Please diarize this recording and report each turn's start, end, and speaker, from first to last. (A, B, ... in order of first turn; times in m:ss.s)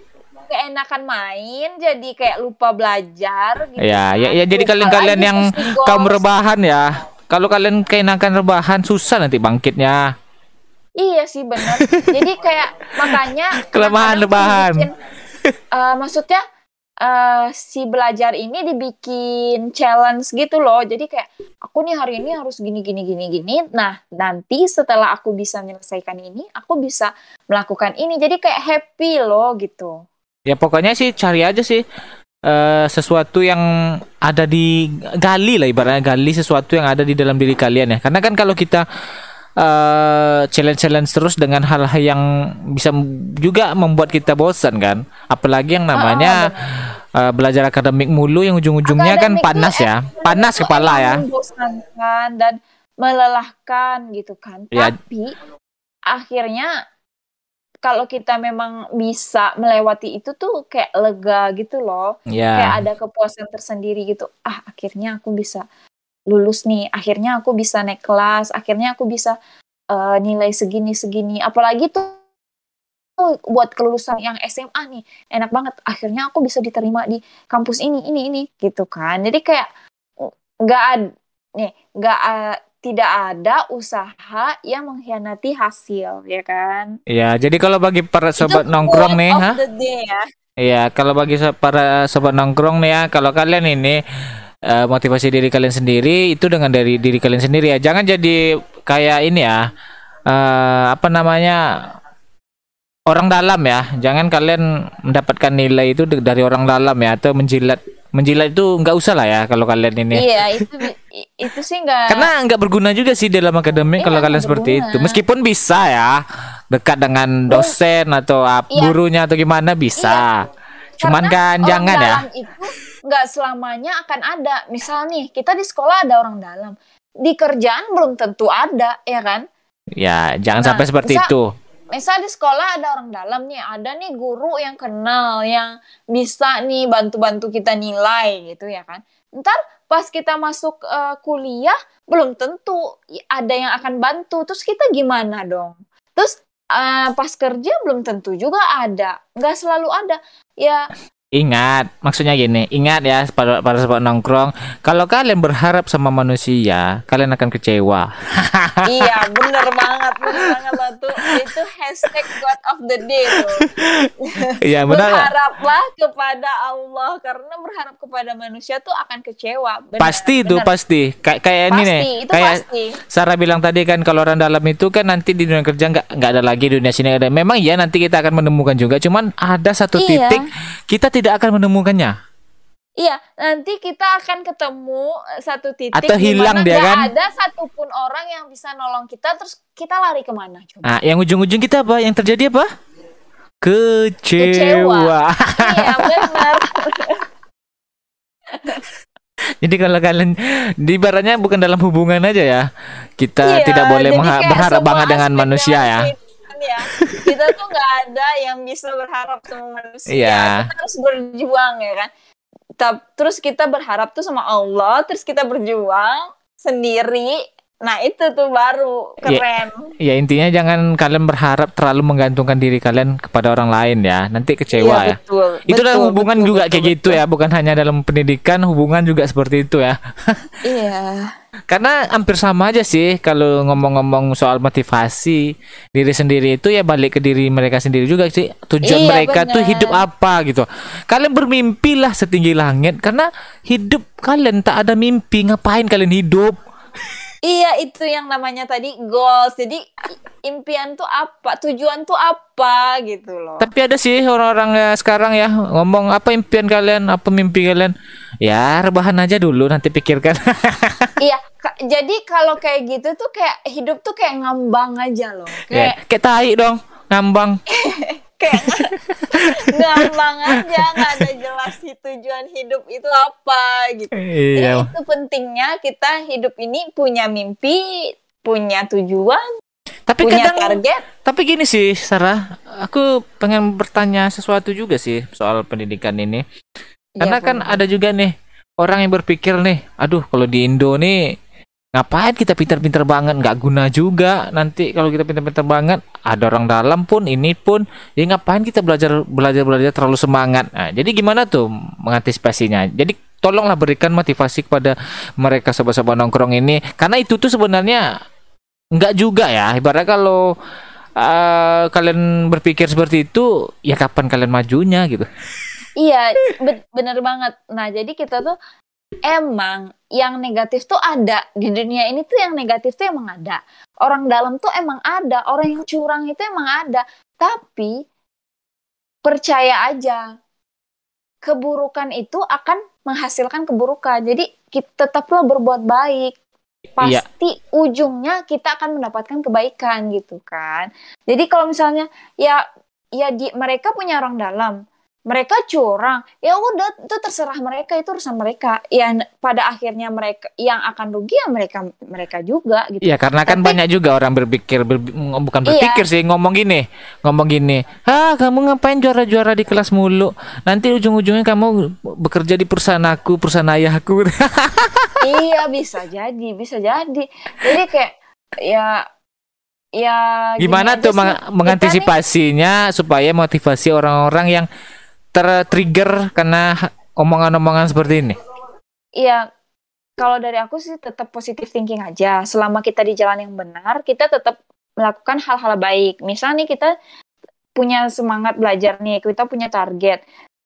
0:00.5-0:06.2 A
0:03.8-0:10.1 B
0:11.0-0:14.9 A
0:11.6-0:12.2 B
0:13.1-0:14.9 B
0:15.7-0:16.4 A
0:17.0-0:30.0 A
0:30.5-0:31.8 B
0:32.4-0:33.6 B
0:34.2-0:38.8 B
0:39.6-0:42.2 B
0:42.7-0:46.5 B
0:45.9-0:46.6 A
0:47.2-0:51.2 B
0:48.8-0:55.3 A
0:56.1-0:56.7 A
0:57.8-1:05.6 A
1:02.3-1:02.8 B
1:06.3-1:09.4 A
1:09.9-1:12.2 A
1:13.5-1:19.7 A
1:20.2-1:21.0 A
1:21.6-1:27.0 A
1:27.1-1:29.6 B
1:28.4-1:30.2 A
1:30.6-1:34.0 B
1:34.7-1:39.6 B
1:40.3-1:41.6 B
1:43.1-1:50.6 B
1:50.1-1:52.3 A
1:52.1-1:56.2 B
1:54.0-1:55.2 A
1:56.7-2:00.5 B
1:57.5-1:57.8 A
2:00.0-2:00.2 A
2:01.0-2:09.4 A
2:01.0-2:02.2 B
2:10.0-2:11.5 B
2:10.5-2:11.3 A
2:11.9-2:30.8 A
2:31.4-2:39.3 B
2:38.8-2:43.7 A
2:43.3-2:45.3 B
2:44.2-2:50.7 A
2:50.0-2:52.6 B
2:51.7-2:53.0 A
2:53.1-3:02.1 B
3:00.0-3:00.4 A
3:03.0-3:10.9 A
3:05.9-3:07.1 B
3:10.8-3:12.7 B
3:13.6-3:16.6 B
3:14.4-3:17.2 A
3:18.5-3:18.8 A
3:19.6-3:22.6 B
3:23.2-3:26.1 B
3:23.4-3:32.1 A
3:26.9-3:27.5 B
3:30.1-3:30.7 B
3:32.8-3:39.9 A
3:40.0-3:45.2 B
3:44.7-3:47.2 A
3:45.7-3:50.4 B
3:50.6-3:51.3 A
3:51.7-3:55.4 B
3:55.9-4:06.6 B
3:58.8-4:00.0 A
4:07.5-4:09.8 A
4:10.4-4:13.7 A
4:13.6-4:17.9 B
4:18.4-4:21.1 B
4:21.2-4:26.0 A
4:25.7-4:27.6 B
4:27.7-4:39.4 A
4:28.5-4:31.3 B
4:34.1-4:34.9 B
4:40.1-4:46.4 B
4:40.2-4:41.0 A
4:47.2-4:47.8 A
4:47.2-4:51.2 B
4:51.9-5:08.0 B
5:08.9-5:10.4 B
5:11.2-5:15.3 B
5:16.0-5:18.5 A
5:19.3-5:27.9 A
5:29.2-5:30.2 A
5:31.4-5:36.3 A
5:37.0-5:42.6 A
5:43.2-5:44.8 A
5:45.3-5:53.8 A
5:53.0-6:05.2 B
5:55.6-5:56.0 A
6:05.2-6:08.1 A
6:08.7-6:09.0 A
6:10.0-6:12.1 A
6:10.6-6:14.7 B
6:15.3-6:18.4 B
6:19.2-6:19.4 A
6:20.2-6:26.9 A
6:27.8-6:30.2 A